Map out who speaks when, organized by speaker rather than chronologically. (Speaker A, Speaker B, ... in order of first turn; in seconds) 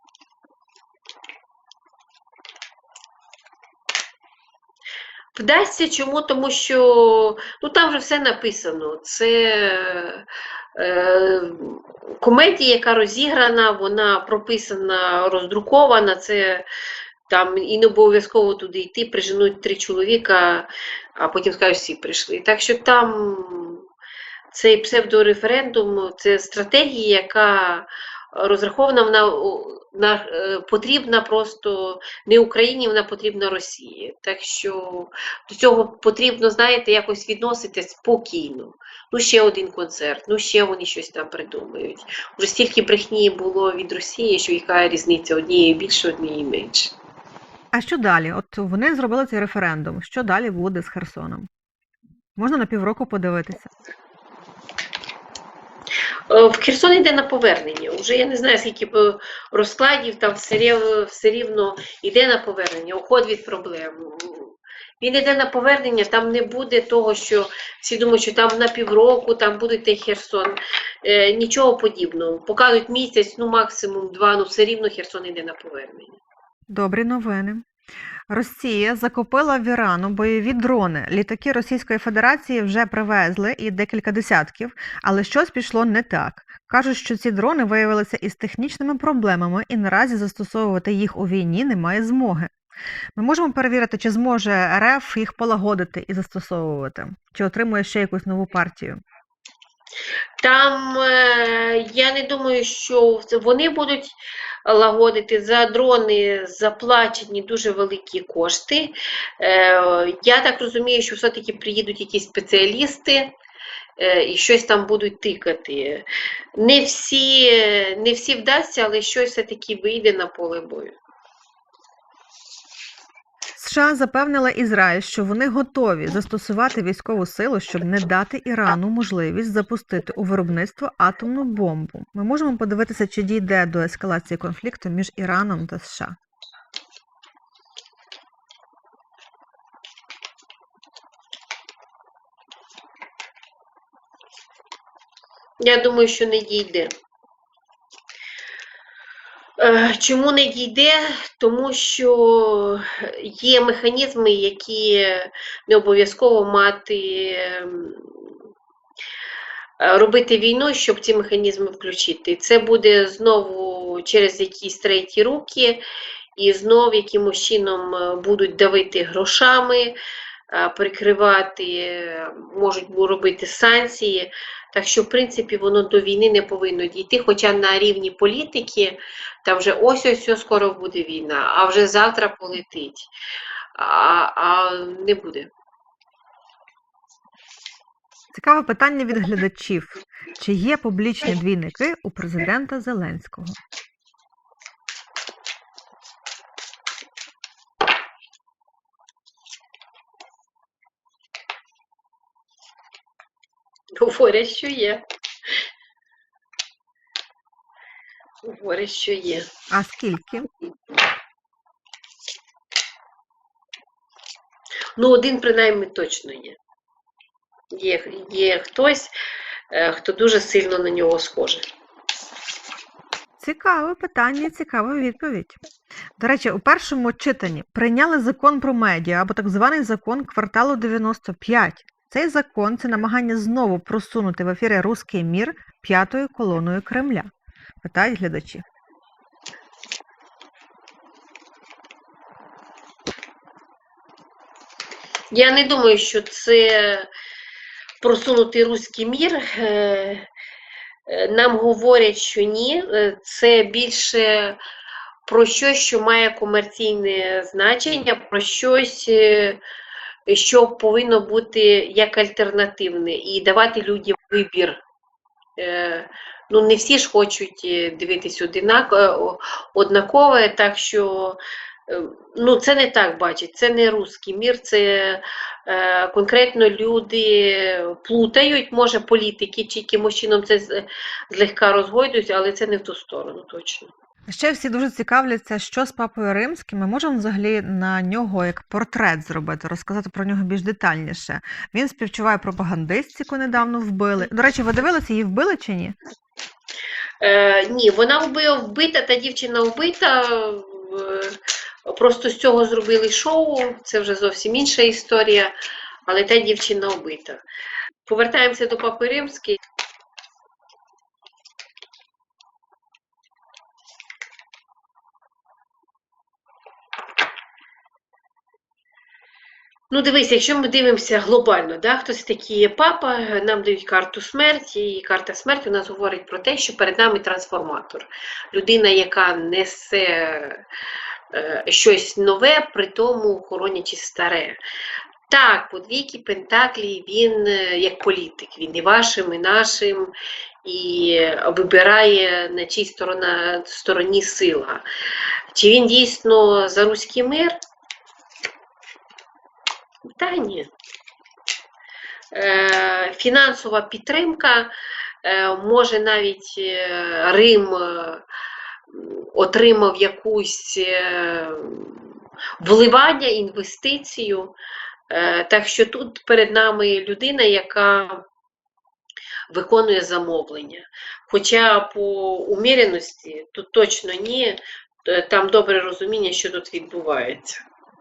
Speaker A: 5.3-16.7, 17.3-23.9, 24.5-46.9, 56.3-76.2, 100.4-113.3, 114.0-121.0, 145.6-146.9, 149.6-158.4, 159.8-165.8, 166.3-170.0, 170.5-183.1, 183.8-185.5, 203.9-205.0, 208.4-209.5, 215.0-216.6, 217.7-219.1, 219.7-221.7, 245.3-247.1, 248.0-250.3, 251.1-254.6, 255.3-259.6, 260.3-264.8, 265.6-283.9, 297.2-305.5, 306.1-307.4, 308.1-309.6, 319.9-330.7, 331.3-334.6, 335.3-344.9, 345.5-347.6, 350.1-350.7, 352.3-358.3, 358.9-364.6, 365.1-368.2, 369.5-377.6
Speaker B: 47.7-51.5, 52.4-53.7, 76.7-77.7, 78.3-92.5, 93.2-99.0, 123.6-136.2, 188.3-193.6, 209.7-210.5, 223.4-225.6, 226.2-238.7, 284.3-296.0